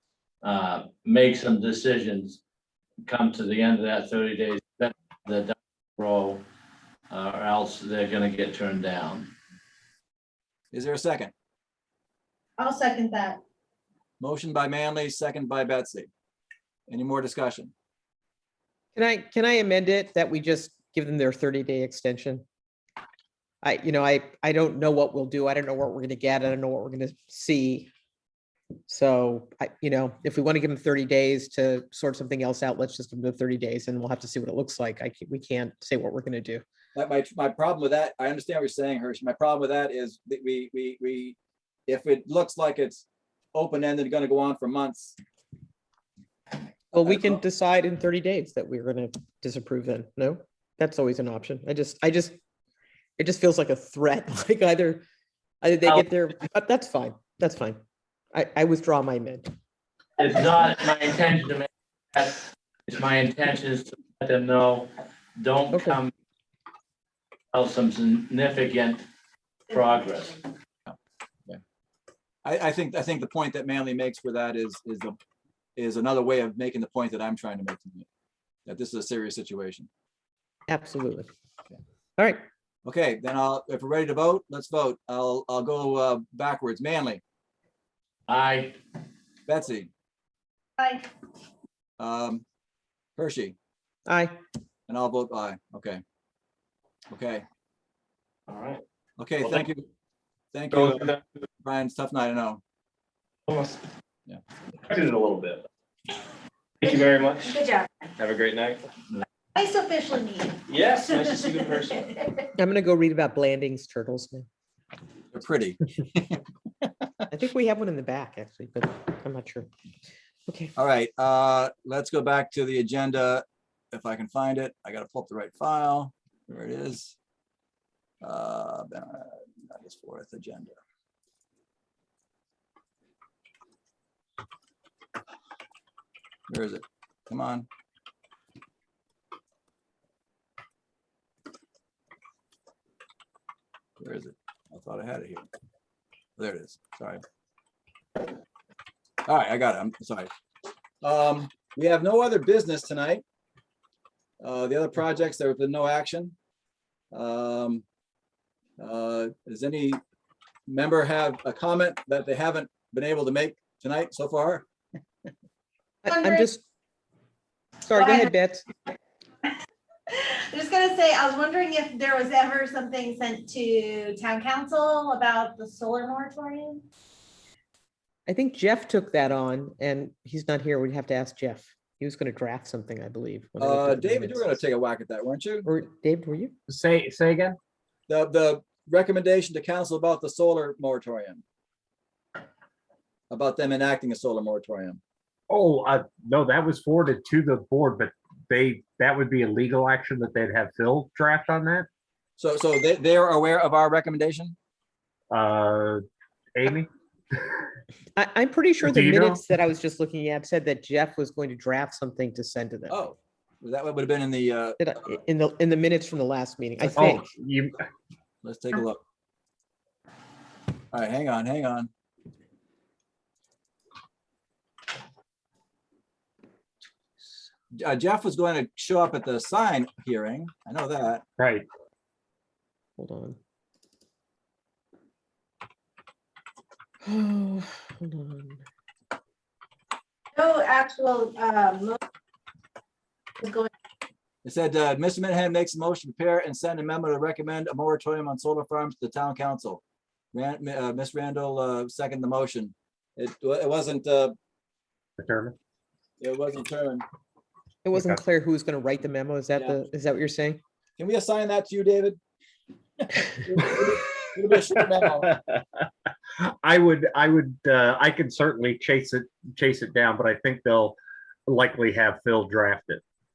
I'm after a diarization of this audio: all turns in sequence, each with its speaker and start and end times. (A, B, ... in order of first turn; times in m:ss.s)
0:00.4-0:02.4 A
0:03.0-0:06.4 A
0:07.1-0:09.3 A
0:10.7-0:11.3 B
0:12.6-0:13.4 C
0:14.2-0:16.1 B
0:16.9-0:17.7 B
0:19.0-0:22.4 D
0:23.6-0:27.9 D
0:28.9-0:36.6 D
0:36.9-0:41.4 B
0:41.9-0:45.2 B
0:46.9-0:52.4 D
0:53.2-0:55.0 D
0:55.6-0:57.8 D
0:58.3-0:59.5 D
1:00.2-1:06.1 A
1:05.7-1:06.0 D
1:07.5-1:09.0 A
1:09.7-1:10.4 A
1:12.4-1:15.1 B
1:15.8-1:18.0 B
1:18.6-1:19.9 B
1:20.7-1:21.3 D
1:22.8-1:27.2 B
1:28.3-1:28.7 A
1:29.5-1:29.9 B
1:30.8-1:31.1 C
1:32.0-1:32.4 B
1:33.2-1:33.6 B
1:34.1-1:34.3 D
1:34.9-1:36.0 B
1:37.1-1:37.4 B
1:38.5-1:38.8 E
1:39.2-1:39.9 B
1:40.5-1:41.1 B
1:40.7-1:41.2 E
1:41.6-1:42.6 B
1:43.5-1:43.8 E
1:44.9-1:45.6 E
1:46.8-1:47.5 E
1:47.4-1:47.9 C
1:48.2-1:48.8 E
1:49.5-1:52.4 C
1:50.7-1:52.1 E
1:52.6-1:54.5 D
1:55.3-1:56.9 B
1:57.3-1:59.7 D
2:00.5-2:00.7 D
2:00.8-2:07.1 B
2:08.2-2:10.8 B
2:16.5-2:17.7 B
2:24.0-2:25.5 B
2:26.4-2:27.2 B
2:29.2-2:30.3 B
2:31.0-2:33.2 B
2:34.4-2:36.3 B
2:37.1-2:37.8 B
2:38.8-2:40.0 B
2:40.7-2:44.7 B
2:46.0-2:46.6 D
2:46.0-2:46.5 C
2:47.8-2:48.6 D
2:48.0-2:48.3 C
2:50.1-2:56.8 C
2:58.3-3:04.6 D
3:03.6-3:05.7 B
3:05.6-3:06.5 D
3:06.7-3:07.6 F
3:08.1-3:11.4 B
3:13.3-3:15.0 B
3:15.5-3:21.9 F
3:22.4-3:24.6 B
3:25.3-3:26.0 F
3:26.5-3:26.9 F
3:28.2-3:33.0 D
3:28.8-3:29.4 F
3:32.9-3:34.8 B
3:34.8-3:37.2 D
3:36.9-3:37.8 F
3:38.4-3:39.0 B
3:40.9-3:41.9 B
3:47.8-3:51.2 B
3:51.4-3:51.6 F
3:53.0-3:53.4 D
3:57.0-3:58.6 D
4:00.4-4:02.0 C
4:03.4-4:03.7 C
4:04.4-4:09.8 B
4:10.3-4:14.3 B
4:15.2-4:15.6 F
4:16.2-4:17.0 B
4:17.8-4:20.6 D
4:17.9-4:18.2 F
4:21.0-4:22.2 B
4:23.3-4:25.3 B
4:25.3-4:25.6 F
4:26.6-4:33.0 F